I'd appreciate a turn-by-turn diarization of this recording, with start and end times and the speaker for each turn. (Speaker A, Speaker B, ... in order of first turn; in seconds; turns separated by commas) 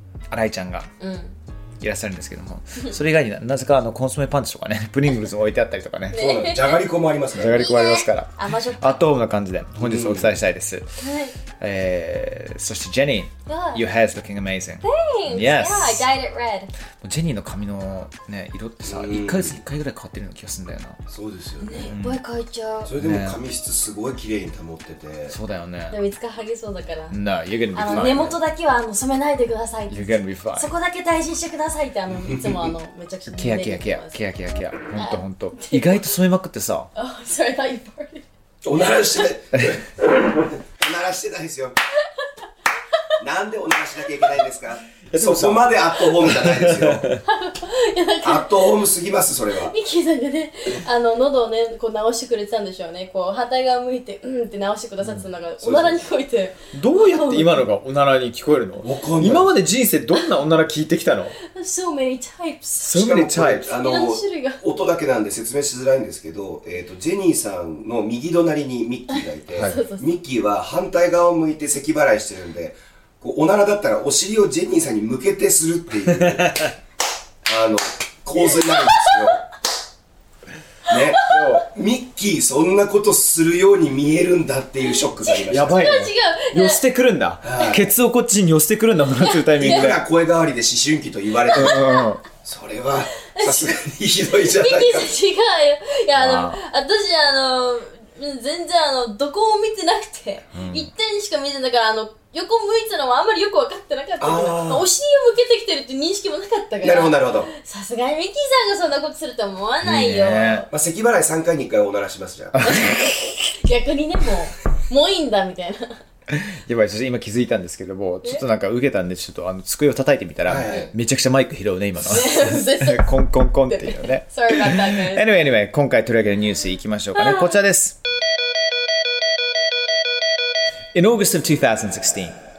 Speaker A: 0.3-0.9, Speaker B: 1.0-1.4, Speaker A: 1.8-6.2, Speaker B: 6.1-6.8, Speaker C: 6.1-7.6, Speaker A: 7.4-10.9, Speaker B: 7.5-9.0, Speaker C: 9.8-10.3, Speaker B: 11.0-11.3, Speaker A: 11.6-16.1, Speaker B: 13.5-13.8, Speaker B: 14.8-16.7, Speaker A: 17.0-21.0, Speaker C: 18.8-19.6, Speaker C: 21.1-21.9, Speaker B: 21.6-22.9, Speaker A: 21.9-22.2, Speaker C: 22.9-25.4, Speaker A: 22.9-23.4, Speaker A: 25.3-26.0, Speaker B: 25.9-27.2, Speaker A: 27.1-28.4, Speaker B: 27.7-34.2, Speaker A: 29.9-30.7, Speaker C: 32.2-32.7, Speaker A: 33.3-36.9, Speaker B: 34.9-36.0, Speaker B: 37.0-38.2, Speaker C: 38.6-39.9, Speaker C: 40.6-41.8, Speaker C: 43.2-47.1, Speaker A: 45.1-47.2, Speaker B: 47.3-48.8, Speaker C: 48.2-49.8, Speaker B: 49.6-57.6, Speaker C: 55.6-56.0, Speaker A: 56.7-61.4, Speaker C: 58.8-59.5, Speaker B: 61.4-63.0, Speaker A: 62.8-63.7, Speaker C: 62.9-76.7, Speaker B: 63.7-64.6, Speaker B: 69.6-70.0, Speaker A: 76.2-76.7, Speaker C: 77.5-79.5, Speaker B: 78.7-79.2, Speaker C: 80.9-85.8, Speaker A: 81.2-81.7, Speaker B: 85.2-86.8, Speaker A: 85.5-90.0, Speaker C: 87.4-87.8, Speaker B: 89.2-89.9, Speaker C: 89.6-91.8, Speaker B: 91.5-92.0, Speaker A: 91.5-92.2, Speaker C: 92.4-95.1, Speaker B: 93.3-110.7, Speaker A: 96.2-96.6, Speaker A: 100.5-100.9, Speaker C: 104.2-104.9, Speaker C: 106.8-107.5, Speaker A: 109.8-110.7, Speaker C: 110.7-112.6, Speaker A: 112.5-113.5, Speaker B: 112.6-112.9, Speaker B: 113.6-116.0, Speaker A: 116.3-128.0, Speaker C: 120.5-120.9, Speaker B: 122.0-123.1, Speaker B: 123.7-125.3, Speaker B: 127.2-127.5, Speaker A: 130.9-132.3